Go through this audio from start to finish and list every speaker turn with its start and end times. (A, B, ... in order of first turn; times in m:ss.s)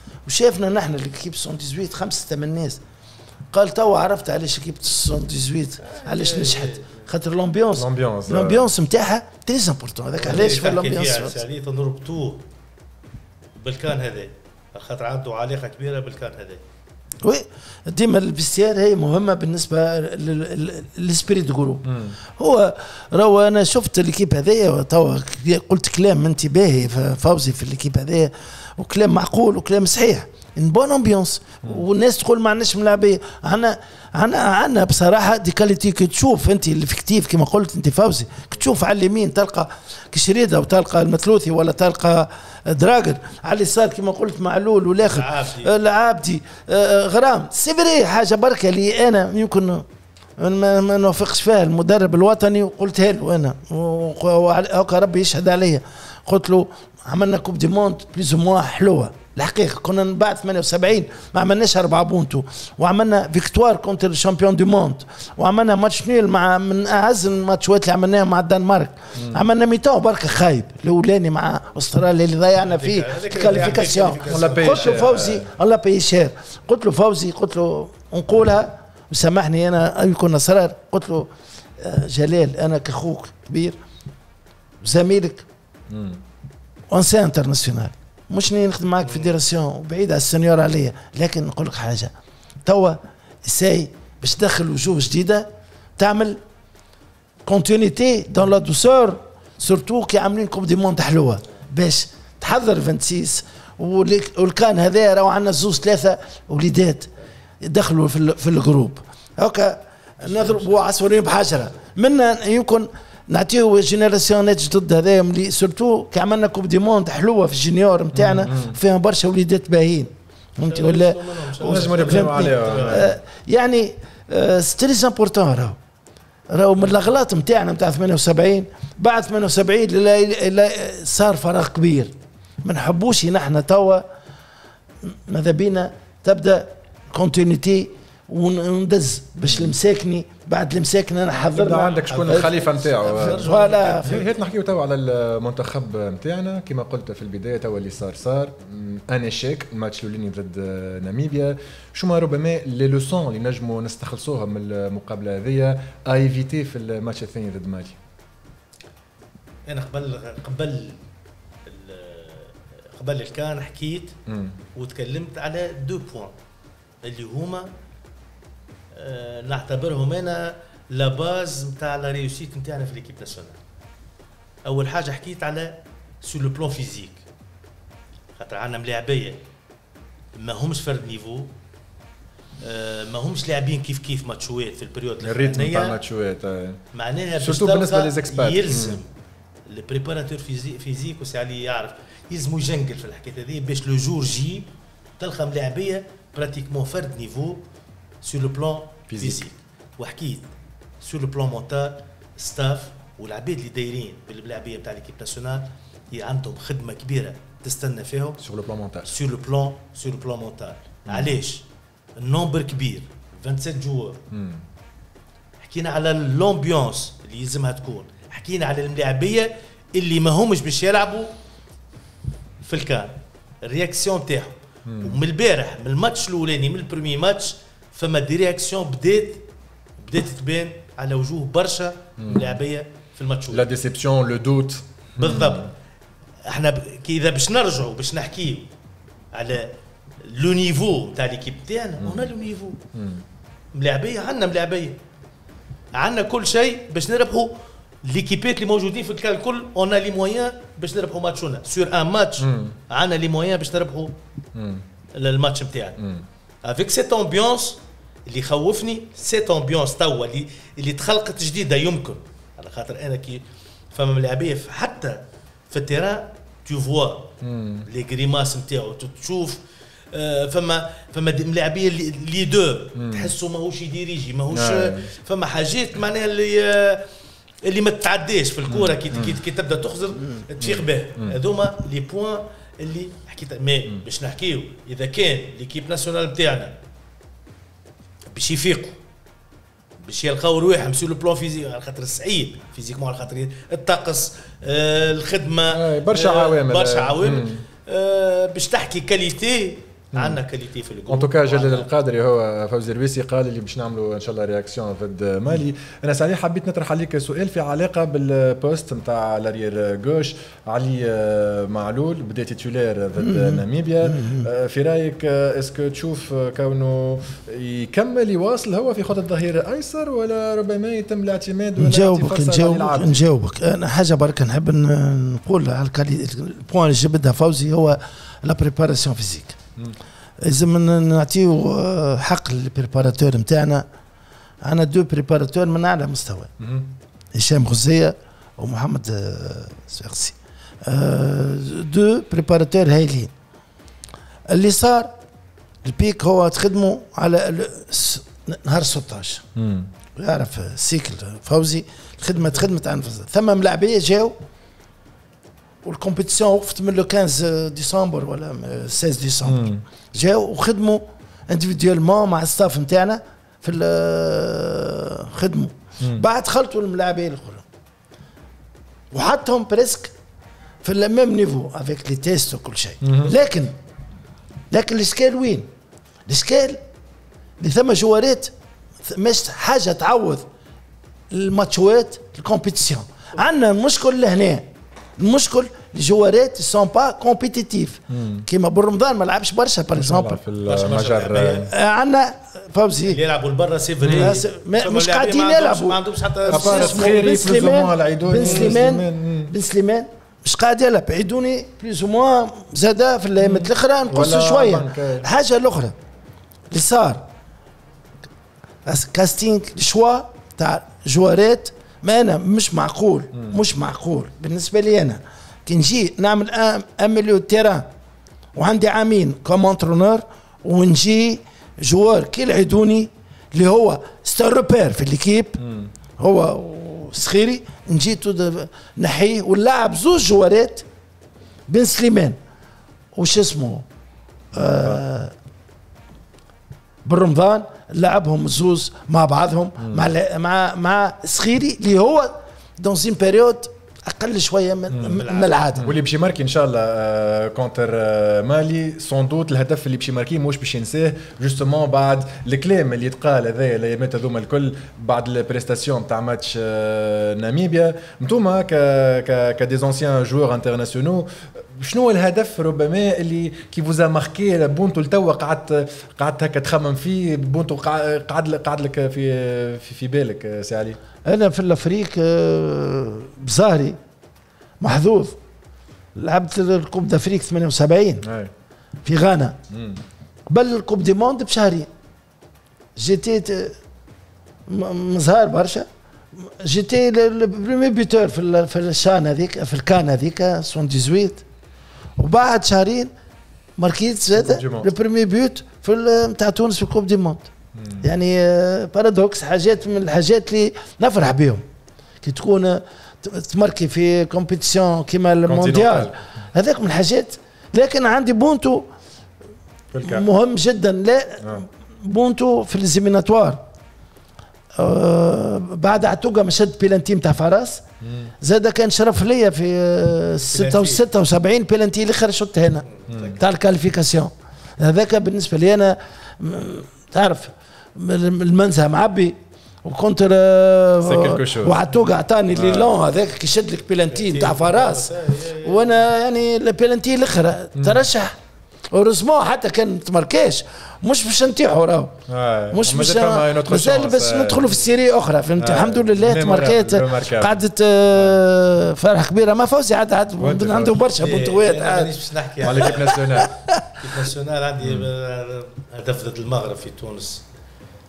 0:00.2-0:02.8 A
0:03.5-0:11.4 A
0:05.8-0:07.1 B
0:07.8-0:08.7 C
0:10.2-0:12.4 B
0:13.6-0:16.6 B
0:17.2-0:49.8 A
0:21.9-0:22.1 C
0:45.0-0:45.7 B
0:50.4-1:23.8 A
1:09.2-1:09.4 C
1:12.6-1:15.1 B
1:14.2-1:15.5 C
1:24.8-1:25.4 A
1:25.9-1:26.2 C
1:26.9-1:32.1 A
1:32.6-1:36.4 A
1:37.4-1:47.1 A
1:47.6-2:05.8 A
1:50.3-1:50.9 B
1:58.1-1:58.8 C
2:00.7-2:03.1 B
2:01.6-2:03.1 C
2:06.5-2:14.0 A
2:15.0-2:22.5 A
2:19.5-2:19.7 C
2:21.5-2:23.5 C
2:21.9-2:24.3 B
2:23.1-2:24.2 A
2:24.0-2:38.0 C
2:39.7-2:41.0 B
2:41.6-2:44.2 B
2:44.3-2:44.6 C
2:44.7-2:46.3 B
2:47.0-2:47.7 B
2:48.9-2:53.6 B
2:54.6-2:57.2 B
2:58.4-2:59.4 B
3:00.3-3:01.5 B
3:02.6-3:06.0 B
3:05.2-3:06.8 C
3:06.9-3:09.1 B
3:07.4-3:09.0 C
3:09.6-3:17.6 B
3:18.2-3:20.5 B
3:19.1-3:19.4 C
3:21.0-3:28.4 B
3:28.4-3:29.1 C
3:29.0-3:31.6 B
3:31.1-3:31.4 C
3:32.2-3:34.2 B
3:34.3-3:34.6 C
3:35.6-3:41.3 B
3:42.6-3:49.4 B
3:44.8-3:45.2 C
3:50.0-3:53.7 B
3:52.2-3:52.5 C
3:53.5-3:55.7 C
3:55.2-3:55.7 B
3:56.4-3:58.7 B
3:59.3-4:02.8 B
4:02.0-4:02.3 C
4:02.9-4:03.2 C
4:03.7-4:05.0 B
4:05.9-4:14.1 B
4:12.4-4:12.7 C
4:14.5-4:14.8 C
4:15.1-4:16.0 B
4:16.0-4:16.2 C
4:16.6-4:27.3 B
4:27.4-4:27.9 C
4:27.8-4:29.6 B
4:30.1-4:37.1 B
4:32.9-4:33.3 C
4:34.5-4:35.1 C
4:37.6-4:46.7 B
4:38.7-4:39.3 C
4:40.6-4:41.4 C
4:48.3-4:49.0 B
4:50.0-5:01.9 B
4:55.7-4:57.6 C
5:00.1-5:00.4 C
5:01.1-5:23.2 C
5:13.2-5:14.5 A
5:21.8-5:29.6 A
5:30.4-5:33.8 A
5:34.6-5:36.5 A
5:36.6-5:36.9 C
5:37.3-5:43.3 A
5:44.5-5:45.1 A
5:45.8-5:49.4 A
5:49.5-5:49.9 C
5:50.2-5:54.4 A
5:55.8-6:07.6 A
5:59.4-5:59.8 C
6:09.1-6:10.1 A
6:10.8-6:13.7 A
6:13.0-6:13.3 C
6:14.7-6:15.7 A
6:16.3-6:16.8 A
6:17.6-6:18.5 A
6:19.0-6:20.4 A
6:21.3-6:30.4 A
6:28.1-6:28.4 C
6:29.9-6:31.7 C
6:30.6-6:31.7 B
6:31.6-6:33.2 A
6:33.0-6:37.2 B
6:34.0-6:34.3 C
6:34.1-6:45.9 A
6:36.5-6:39.5 C
6:38.4-6:38.8 B
6:43.4-6:45.2 C
6:46.7-6:47.2 A
6:48.8-6:57.9 A
6:53.3-6:53.6 C
6:58.6-7:05.6 A
7:05.6-7:05.9 C
7:06.2-7:10.8 A
7:11.7-7:12.4 A
7:13.2-7:13.8 A
7:14.5-7:15.3 A
7:14.6-7:15.0 C
7:17.0-7:25.9 A
7:19.8-7:20.1 C
7:24.9-7:25.2 C
7:25.1-7:25.7 B
7:25.8-7:51.0 C
7:51.2-7:54.0 A
7:54.8-7:55.4 A
7:56.2-7:58.2 A
7:58.2-7:58.5 C
7:59.0-7:59.6 A
7:59.7-8:00.0 C
8:00.5-8:01.9 A
8:03.0-8:03.8 A
8:04.7-8:11.4 A
8:12.2-8:13.1 A
8:13.8-8:17.5 A
8:14.4-8:14.9 C
8:17.8-8:18.0 C
8:18.0-8:21.6 A
8:22.2-8:28.8 A
8:25.5-8:26.1 C
8:29.9-8:30.2 C
8:30.0-8:33.6 A
8:34.8-8:37.8 A
8:38.0-8:38.3 C
8:38.4-8:55.1 A
8:40.5-8:41.0 B
8:43.0-8:43.4 B
8:43.1-8:43.4 C
8:51.0-8:51.8 C
8:52.5-8:52.9 C
8:54.1-8:56.0 B
8:55.6-8:58.3 A
8:57.8-8:58.0 C
8:58.9-9:02.2 A
9:02.3-9:04.7 C
9:02.7-9:12.1 A
9:05.6-9:08.4 C
9:10.4-9:11.0 C
9:11.2-9:13.2 B
9:12.6-9:13.5 C
9:12.7-9:13.9 A
9:14.0-9:17.4 B
9:14.8-9:15.1 C